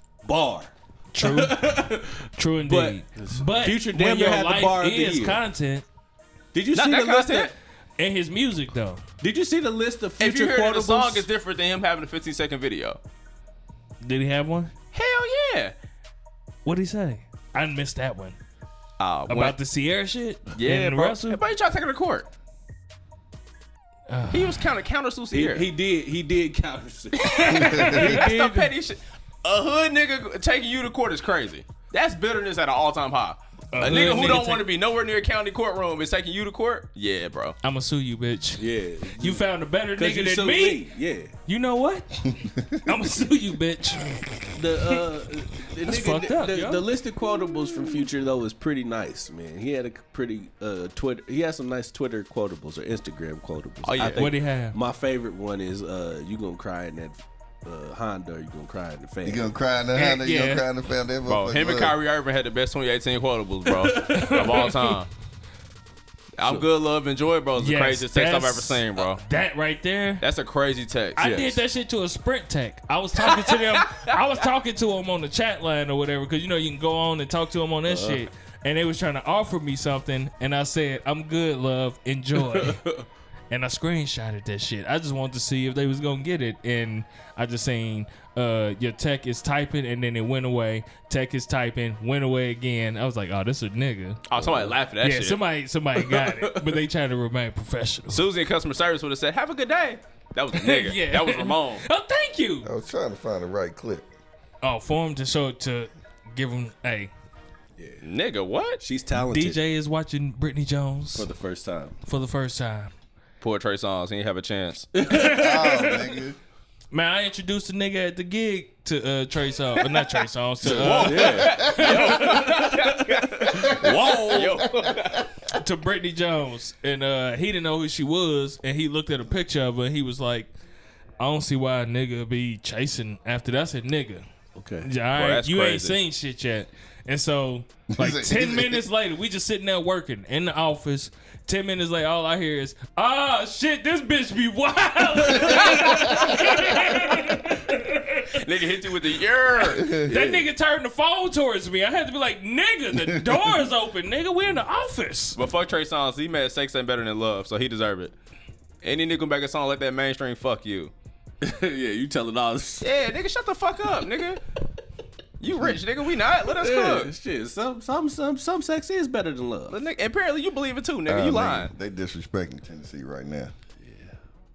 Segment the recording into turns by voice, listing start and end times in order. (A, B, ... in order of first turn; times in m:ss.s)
0:00.2-0:05.4 A
0:01.1-0:01.7 B
0:02.4-0:05.8 B
0:06.5-0:07.5 A
0:06.7-0:07.5 C
0:08.0-0:09.0 B
0:09.2-0:11.3 A
0:10.2-0:13.0 C
0:14.0-0:14.7 B
0:14.9-0:15.7 C
0:16.6-0:18.4 B
0:19.0-0:19.6 C
0:19.3-0:21.4 B
0:20.5-0:22.3 C
0:24.1-0:24.6 B
0:24.3-0:25.7 C
0:25.3-0:28.7 A
0:27.2-0:28.3 B
0:27.6-0:27.9 D
0:27.8-0:37.6 C
0:33.7-0:34.6 B
0:37.6-0:38.6 B
0:38.6-0:41.3 A
0:39.2-0:40.8 B
0:41.4-0:45.0 B
0:42.4-0:42.8 D
0:44.6-0:59.4 A
0:45.8-0:46.8 B
0:53.8-0:54.3 C
0:54.1-0:54.8 B
0:59.2-1:02.0 D
0:59.9-1:00.6 B
1:01.2-1:05.1 C
1:03.6-1:04.7 A
1:04.1-1:04.7 B
1:06.4-1:09.2 C
1:07.6-1:10.2 B
1:10.2-1:11.2 C
1:11.2-1:22.8 B
1:11.2-1:11.6 A
1:13.5-1:14.1 C
1:17.9-1:18.2 A
1:22.4-1:23.0 A
1:23.5-1:38.2 B
1:34.3-1:35.4 C
1:36.0-1:36.7 A
1:38.1-1:41.8 C
1:40.5-1:42.7 B
1:42.6-1:44.0 D
1:44.6-1:47.1 B
1:47.8-1:48.0 A
1:48.0-1:48.8 C
1:48.8-1:49.6 A
1:49.3-1:51.3 B
1:51.1-1:52.0 A
1:52.0-1:52.9 B
1:53.4-1:54.9 C
1:54.9-1:55.4 A
1:55.0-1:56.1 B
1:55.1-1:56.4 D
1:56.9-2:02.5 B
2:00.6-2:04.6 A
2:00.6-2:05.2 C
2:03.5-2:05.5 D
2:05.5-2:10.5 B
2:11.2-2:14.2 B
2:14.6-2:14.9 A
2:14.8-2:28.4 B
2:15.1-2:16.0 C
2:17.9-2:18.8 D
2:25.4-2:26.4 C
2:25.4-2:26.8 D
2:28.3-2:29.9 C
2:29.6-2:30.3 D
2:30.1-2:35.4 B
2:30.1-2:30.4 A
2:32.9-2:33.5 D
2:35.4-2:38.1 C
2:38.8-2:40.9 C
2:41.4-2:42.9 A
2:42.8-2:44.4 C
2:45.4-2:47.1 C
2:46.5-2:49.8 A
2:49.7-2:51.7 C
2:51.1-2:53.5 D
2:53.8-2:54.1 A